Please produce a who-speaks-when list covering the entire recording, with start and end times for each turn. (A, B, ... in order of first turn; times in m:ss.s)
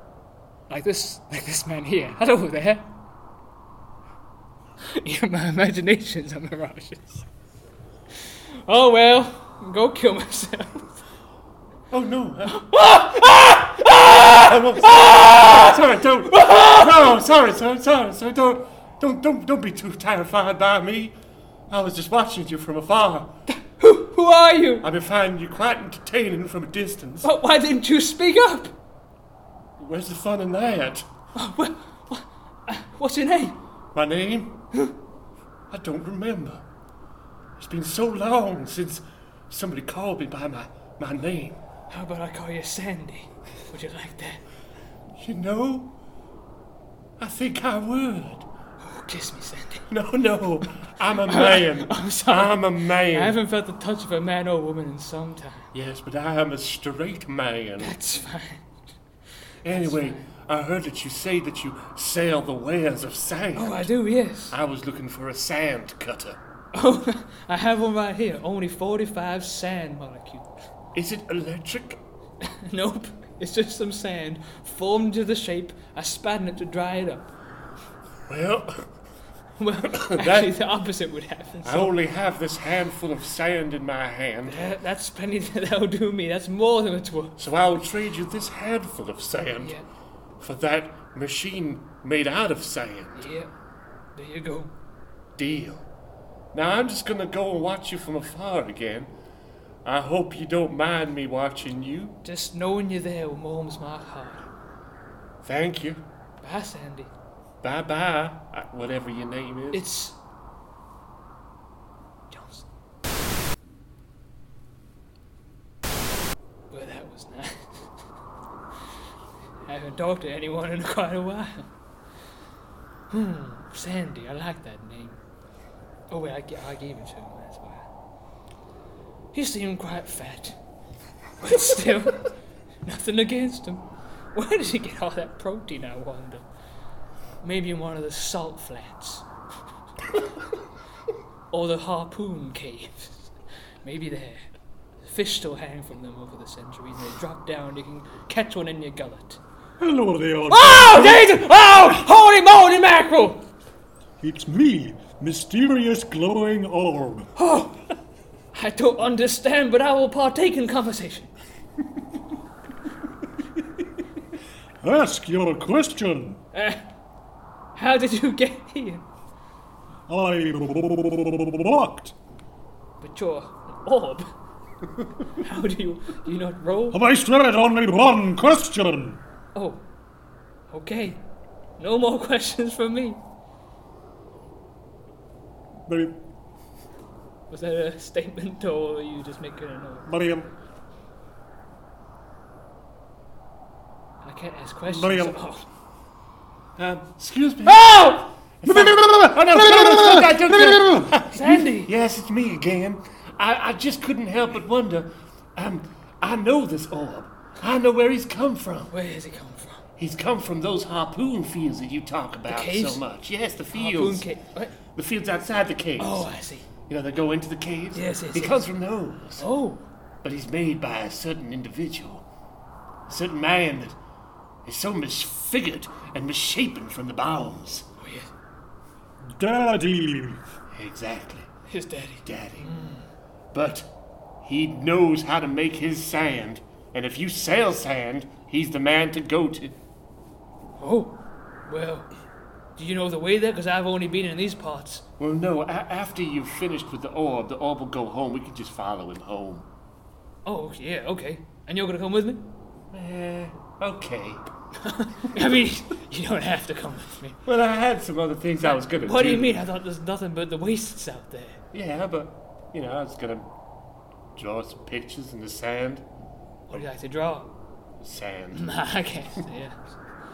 0:00.7-0:02.9 A
0:04.9-0:07.2 A
0:08.6-0:11.0 A
0:11.9-0:12.7 B
0:12.5-0:15.8 A
0:14.1-0:21.1 B
0:16.3-0:16.9 A
0:21.7-0:23.3 B
0:23.5-0:24.9 A
0:24.8-0:27.3 B
0:27.2-0:28.7 A
0:29.8-0:31.1 B
0:31.3-0:33.6 A
0:33.9-0:34.6 B
0:35.7-0:36.6 B
0:37.6-0:41.6 B
0:41.9-0:44.4 A
0:45.2-0:45.9 B
0:47.2-0:48.4 B
0:48.8-0:49.9 A
0:49.9-0:53.4 B
0:51.2-0:55.7 A
0:55.7-0:58.0 B
0:57.8-0:58.8 A
0:59.6-1:03.9 B
0:59.7-1:00.3 A
1:03.5-1:04.6 A
1:04.5-1:06.4 B
1:06.7-1:10.5 A
1:10.9-1:12.0 B
1:12.4-1:17.3 A
1:18.3-1:18.9 B
1:19.6-1:21.9 A
1:19.9-1:20.5 B
1:21.6-1:24.6 B
1:24.4-1:27.4 A
1:27.4-1:29.7 B
1:29.6-1:29.8 A
1:30.4-1:33.2 B
1:33.1-1:33.5 A
1:34.1-1:34.7 A
1:35.4-1:35.8 B
1:36.5-1:39.1 B
1:39.8-1:42.2 B
1:42.2-1:44.4 A
1:45.4-1:46.0 B
1:46.4-1:47.1 A
1:47.6-1:49.8 B
1:49.7-1:50.2 A
1:52.3-1:52.6 A
1:56.7-1:57.8 A
1:59.6-2:01.7 A
2:03.1-2:05.2 A
2:06.1-2:07.8 A
2:09.3-2:10.6 A
2:11.4-2:12.3 A
2:12.8-2:16.4 A
2:17.4-2:19.2 A
2:21.5-2:23.3 A
2:23.8-2:24.4 A
2:25.0-2:29.4 A
2:29.8-2:31.3 C
2:30.5-2:33.4 A
2:34.2-2:37.3 C
2:37.4-2:37.8 A
2:38.5-2:41.3 A
2:44.8-2:46.4 C
2:46.5-2:46.8 A
2:47.7-2:49.0 A
2:50.1-2:52.1 C
2:53.0-2:54.3 A
2:55.4-2:57.0 A
2:56.9-2:59.2 C
2:59.5-2:59.8 A
3:00.7-3:01.2 A
3:01.8-3:03.2 A
3:05.9-3:06.2 C
3:07.5-3:10.1 A
3:10.0-3:10.5 C
3:14.2-3:15.6 A
3:14.9-3:15.4 C
3:16.8-3:18.0 B
3:17.6-3:18.3 A
3:18.6-3:28.9 B
3:18.7-3:21.1 C
3:21.3-3:21.9 A
3:28.9-3:29.8 A
3:30.0-3:34.2 B
3:32.5-3:33.0 A
3:33.7-3:34.7 A
3:34.9-3:36.3 B
3:36.0-3:36.7 A
3:36.9-3:39.4 B
3:37.9-3:38.6 A
3:39.4-3:39.8 A
3:40.2-3:42.2 B
3:43.1-3:44.0 B
3:44.6-3:47.8 B
3:48.0-3:48.3 A
3:49.3-3:50.4 C
3:50.7-3:51.5 B
3:51.7-3:53.1 A
3:52.2-3:52.7 B
3:53.5-3:53.9 B
3:54.4-3:59.7 B
4:00.8-4:02.1 A
4:02.8-4:05.0 A
4:05.2-4:09.6 B
4:10.4-4:12.5 A
4:12.9-4:14.4 B
4:14.8-4:17.4 A
4:17.4-4:19.6 B
4:18.6-4:21.6 A
4:21.7-4:23.5 B
4:24.4-4:26.0 B
4:26.7-4:27.5 A
4:28.0-4:28.7 B
4:28.5-4:29.9 A